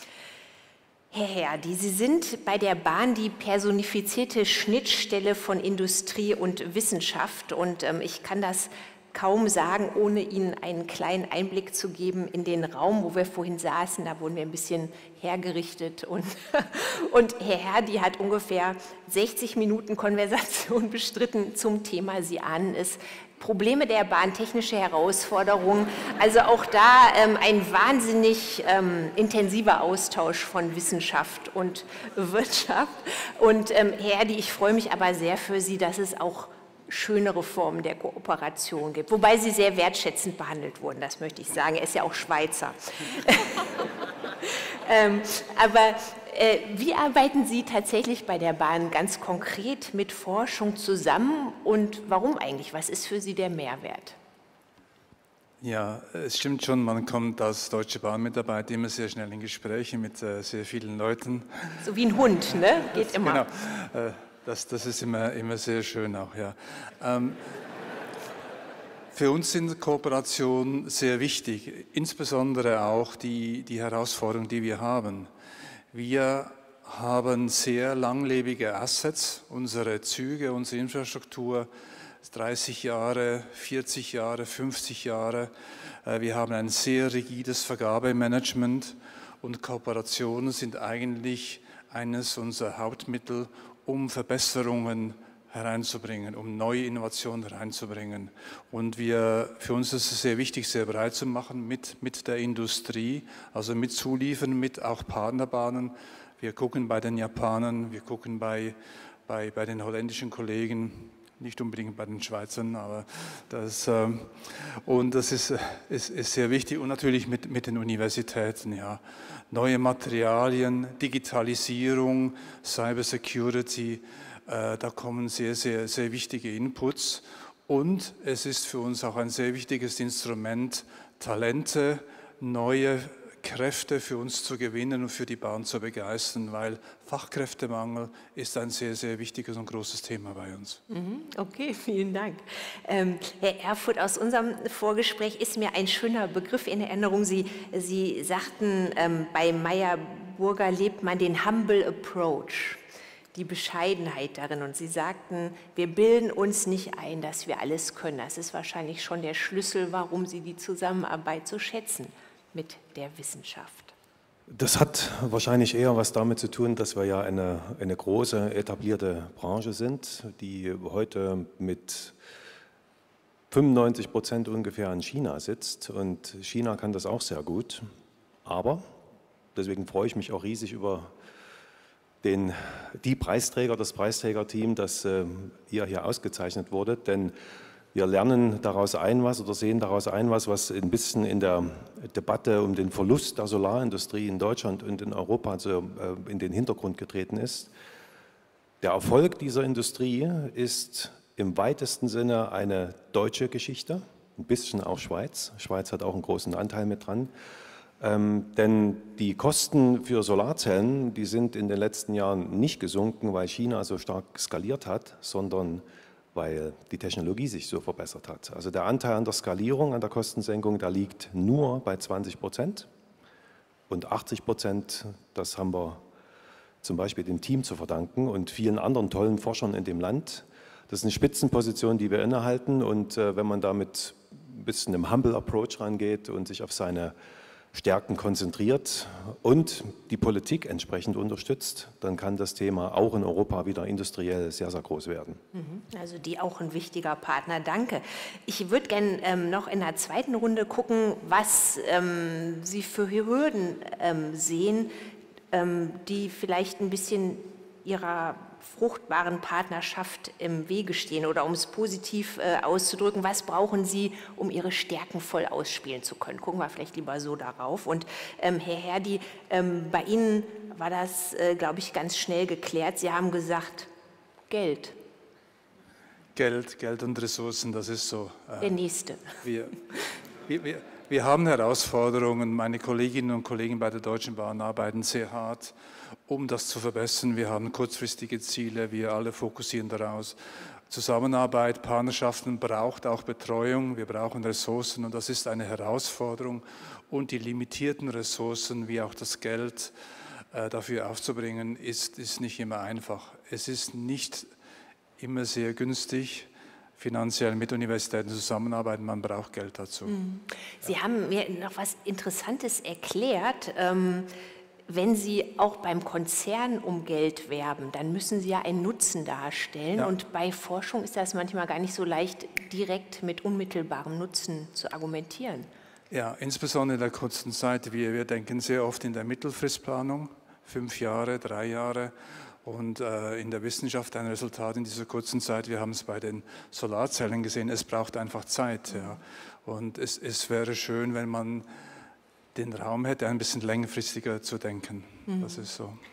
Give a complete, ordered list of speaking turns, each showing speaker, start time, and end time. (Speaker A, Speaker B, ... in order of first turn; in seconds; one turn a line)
Speaker A: 1.1-43.7
Speaker A: 44.5-54.2
Speaker B: 55.6-61.9
Speaker A: 61.8-63.5
Speaker B: 62.5-67.4
Speaker B: 69.1-75.3
Speaker B: 75.9-81.7
Speaker B: 82.2-85.5
Speaker B: 86.0-140.8
Speaker A: 140.9-152.8
Speaker A: 153.3-163.9
Speaker C: 164.5-172.1
Speaker C: 173.5-177.8
Speaker C: 178.4-178.8
Speaker C: 179.5-181.1
Speaker C: 182.2-187.3
Speaker C: 187.9-197.7
Speaker C: 198.8-207.3
Speaker C: 208.0-222.9
Speaker C: 223.9-226.0
Speaker C: 226.8-237.1
Speaker C: 237.7-245.4
Speaker A: 245.5-254.9
Speaker A: 255.5-273.9
Speaker A: 274.5-274.9
Speaker B: 276.3-278.8
Speaker A: 278.6-279.3
Speaker B: 279.4-279.8
Speaker B: 280.5-285.7
Speaker B: 286.3-290.4
Speaker B: 290.9-299.9
Speaker B: 300.5-304.5
Speaker B: 305.2-310.2
Speaker A: 310.1-314.3
Speaker A: 314.9-325.7
Speaker B: 326.1-341.7
Speaker A: 338.9-339.2
Speaker B: 342.5-346.0
Speaker A: 345.3-345.7